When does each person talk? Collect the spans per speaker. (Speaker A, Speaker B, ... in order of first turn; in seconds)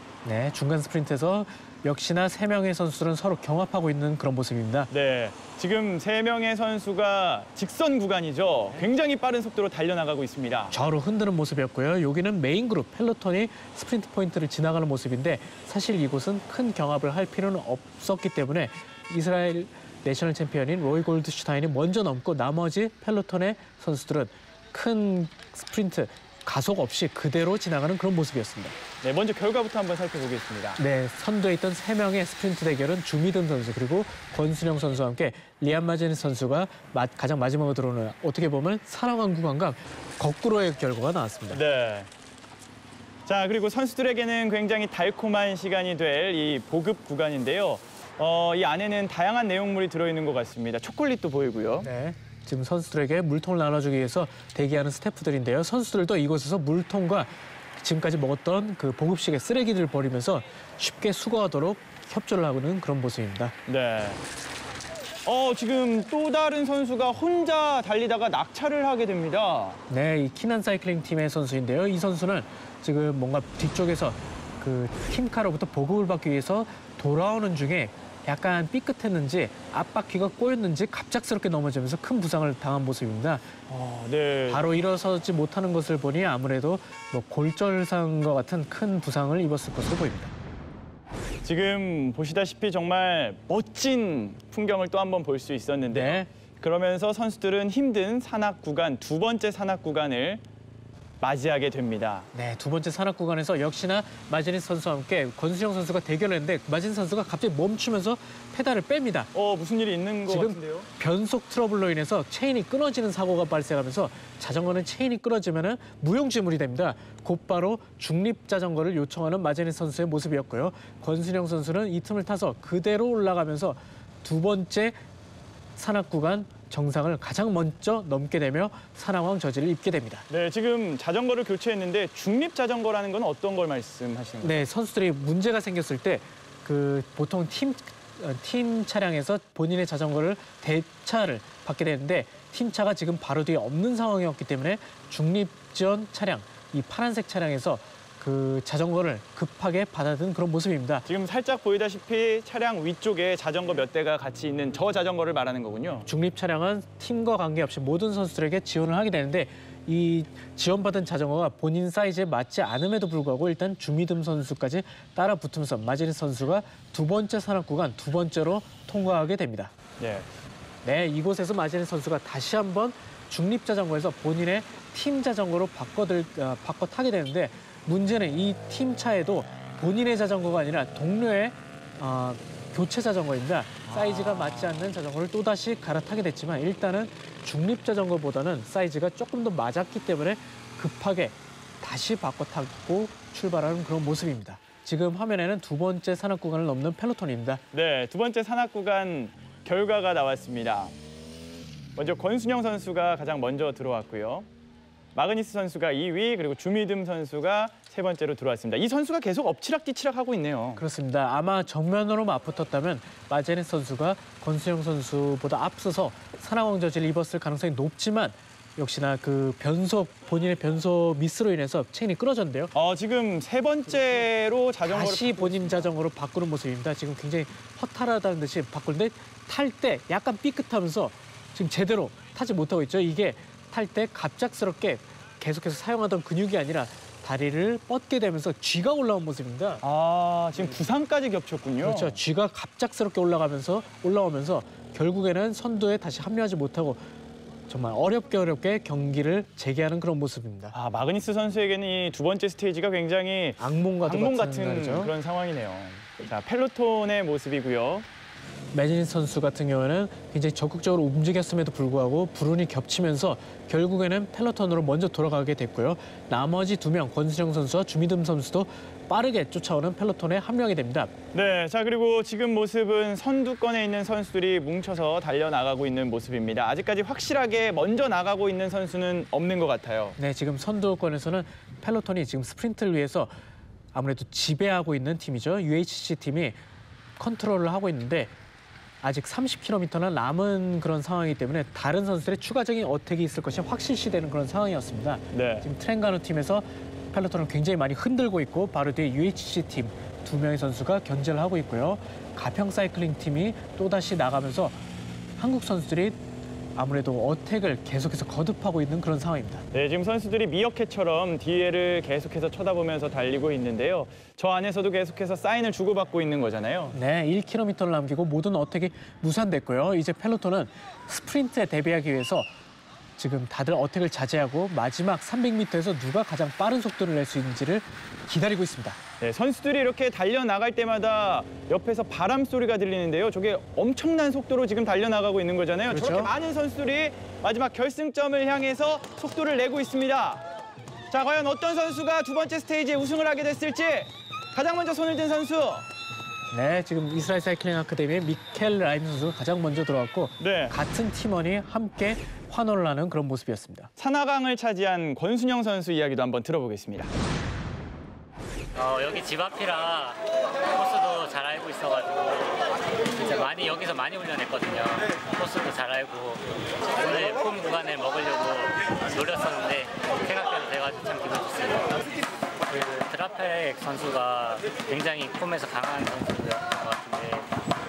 Speaker A: 0.2-4.9, 10.7-28.8, 30.8-41.6, 51.8-63.5, 69.9-83.5, 84.5-90.3, 95.9-96.3, 102.3-109.3, 110.3-125.0, 125.8-130.2, 134.4-151.1, 156.1-169.7, 170.8-197.6, 210.8-222.7, 224.8-239.8, 241.8-247.1, 247.7-250.7, 253.6-255.1, 258.7-271.1, 280.2-283.4, 283.9-286.6, 287.2-288.3, 289.0-304.8, 305.4-306.2, 306.7-309.6, 316.9-322.5, 323.2-329.0, 335.9-336.3, 346.5-353.9
Speaker B: 4.9-10.7, 29.0-30.8, 41.5-42.1, 43.3-51.9, 63.7-64.2, 65.2-69.8, 83.7-84.6, 91.4-100.4, 101.2-102.3, 109.3-110.9, 130.3-134.6, 151.1-156.1, 170.0-170.3, 197.7-200.9, 201.9-204.5, 205.1-210.8, 222.7-225.9, 239.8-242.2, 250.7-258.1, 271.3-280.1, 295.3-295.6, 309.7-316.9, 329.2-340.4, 341.1-345.9, 350.4-350.7, 354.0-357.1
Speaker C: 358.7-372.0, 372.7-377.5